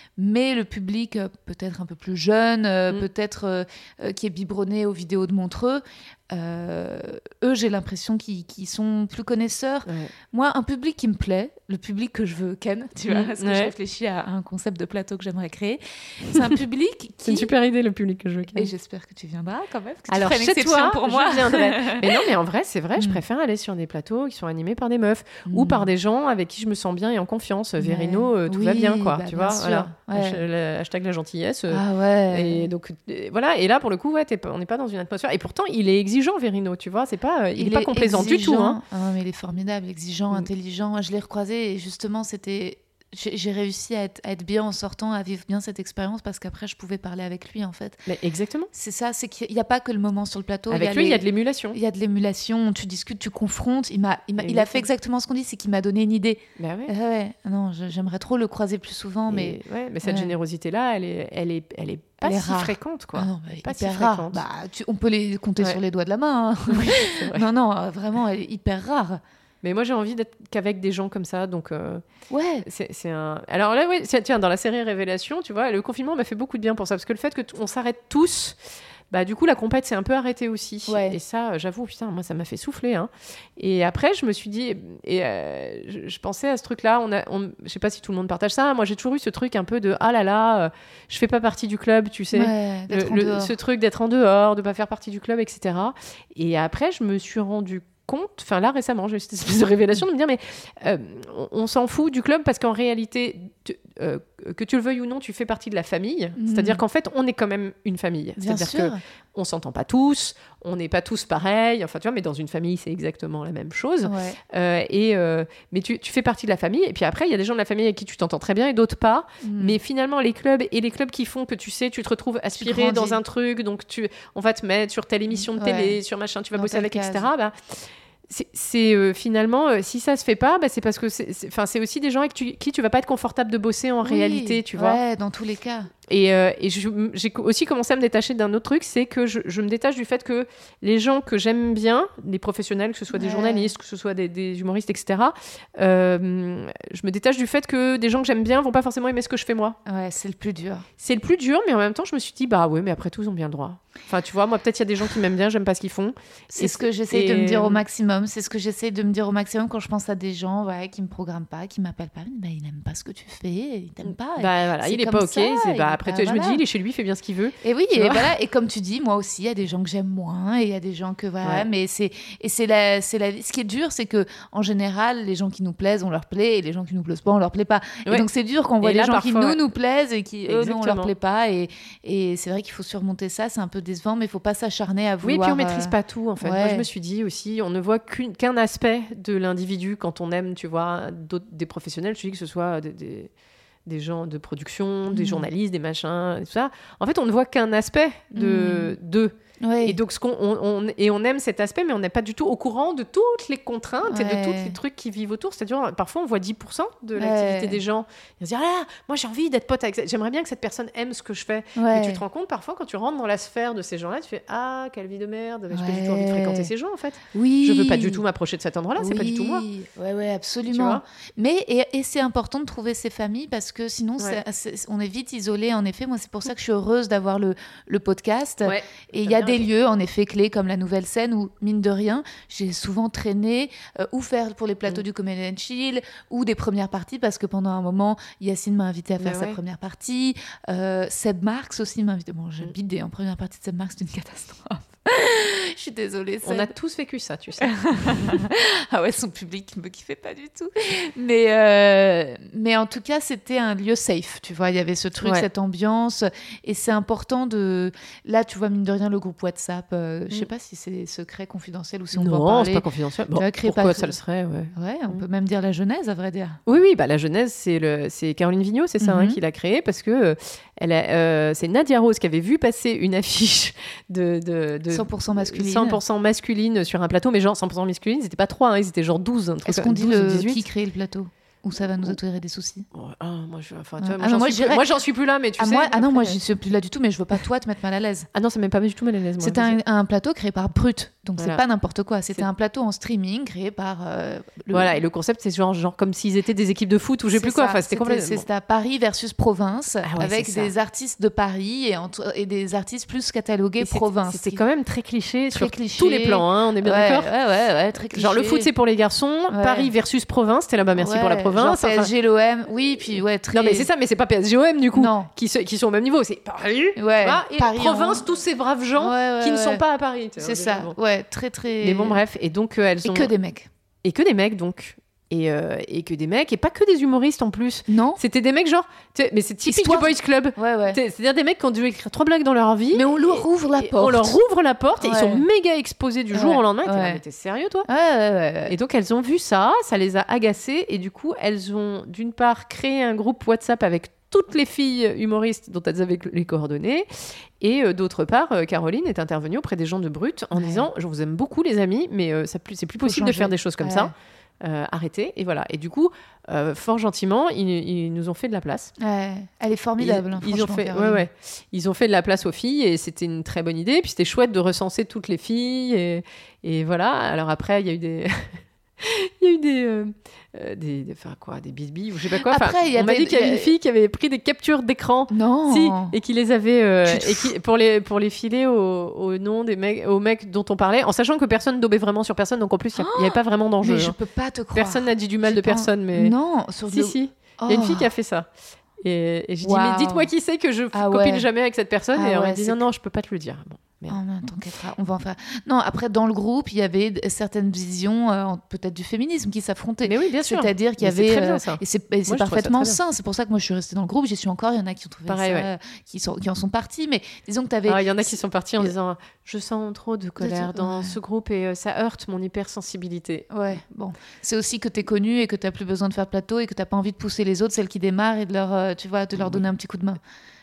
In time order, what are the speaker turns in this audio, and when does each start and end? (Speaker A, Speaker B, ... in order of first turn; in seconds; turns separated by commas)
Speaker A: 0.2-17.5, Speaker B: 9.9-10.1, Speaker B: 13.1-13.7, Speaker B: 17.3-18.7, Speaker A: 18.6-22.1, Speaker B: 20.1-38.8, Speaker A: 25.5-25.9, Speaker A: 27.8-30.4, Speaker A: 31.7-32.7, Speaker A: 37.6-48.0, Speaker B: 48.1-48.7, Speaker A: 48.7-60.3, Speaker B: 50.7-51.8, Speaker B: 54.4-54.9, Speaker B: 56.6-56.9, Speaker B: 59.3-64.4, Speaker A: 62.2-69.2, Speaker B: 66.7-67.4, Speaker B: 69.6-72.0, Speaker A: 72.3-72.6, Speaker B: 72.6-135.0, Speaker A: 80.9-81.2, Speaker A: 92.3-93.5, Speaker A: 106.4-106.8, Speaker A: 108.4-109.0, Speaker A: 114.0-114.4, Speaker A: 119.4-119.8, Speaker A: 122.6-123.2, Speaker A: 125.3-126.0, Speaker A: 126.5-127.3, Speaker A: 134.0-135.9, Speaker B: 136.1-149.8, Speaker A: 143.1-143.7, Speaker A: 149.9-150.8, Speaker B: 151.0-157.8, Speaker A: 156.5-166.6, Speaker B: 164.4-168.3, Speaker A: 167.6-186.9, Speaker B: 178.8-179.6, Speaker B: 180.5-181.1, Speaker B: 185.2-193.3, Speaker B: 193.9-219.7, Speaker A: 195.1-195.5, Speaker A: 198.3-198.9, Speaker A: 199.6-200.0, Speaker A: 204.1-204.8, Speaker A: 207.2-207.8, Speaker A: 211.8-212.2, Speaker A: 215.7-216.7, Speaker A: 217.3-218.2, Speaker A: 219.0-246.7, Speaker B: 220.7-221.0, Speaker B: 228.6-229.7, Speaker B: 239.2-239.6, Speaker B: 246.4-247.9, Speaker A: 247.7-264.2, Speaker B: 255.2-255.5, Speaker B: 262.1-265.2, Speaker A: 264.7-266.6, Speaker B: 266.7-280.6, Speaker A: 269.0-269.4, Speaker A: 274.9-276.0, Speaker A: 279.7-282.9, Speaker B: 281.8-282.2, Speaker B: 282.9-286.4, Speaker A: 284.0-284.8, Speaker A: 285.6-288.3, Speaker B: 288.3-289.8, Speaker A: 289.4-295.0, Speaker B: 291.4-291.6, Speaker B: 294.7-298.5, Speaker A: 297.3-304.6, Speaker B: 300.0-300.7, Speaker B: 303.8-307.3, Speaker A: 305.5-308.7, Speaker B: 308.1-312.1, Speaker A: 309.5-309.9, Speaker A: 311.0-313.9, Speaker B: 313.5-321.0, Speaker A: 314.9-315.3, Speaker A: 317.0-318.3, Speaker A: 319.0-319.8, Speaker A: 320.4-322.2, Speaker B: 321.8-323.3, Speaker A: 323.0-323.7, Speaker B: 324.0-337.9, Speaker A: 327.9-328.2, Speaker A: 329.6-331.0, Speaker A: 332.9-334.4, Speaker A: 335.0-335.4, Speaker A: 336.3-337.2, Speaker A: 337.9-338.7, Speaker B: 338.7-358.9, Speaker A: 350.5-350.9, Speaker A: 353.0-354.1, Speaker A: 359.0-361.3, Speaker B: 360.0-384.2, Speaker A: 372.4-373.7, Speaker A: 375.3-376.1, Speaker A: 377.1-377.5, Speaker A: 383.0-388.1, Speaker B: 384.8-386.4, Speaker B: 386.9-388.5, Speaker B: 389.0-394.2, Speaker A: 389.6-390.3, Speaker A: 390.9-391.5, Speaker A: 392.2-392.8, Speaker A: 394.1-408.9, Speaker B: 400.1-403.0, Speaker B: 405.3-405.7, Speaker B: 407.9-413.6, Speaker A: 410.4-411.2, Speaker A: 413.5-420.2, Speaker B: 419.4-419.6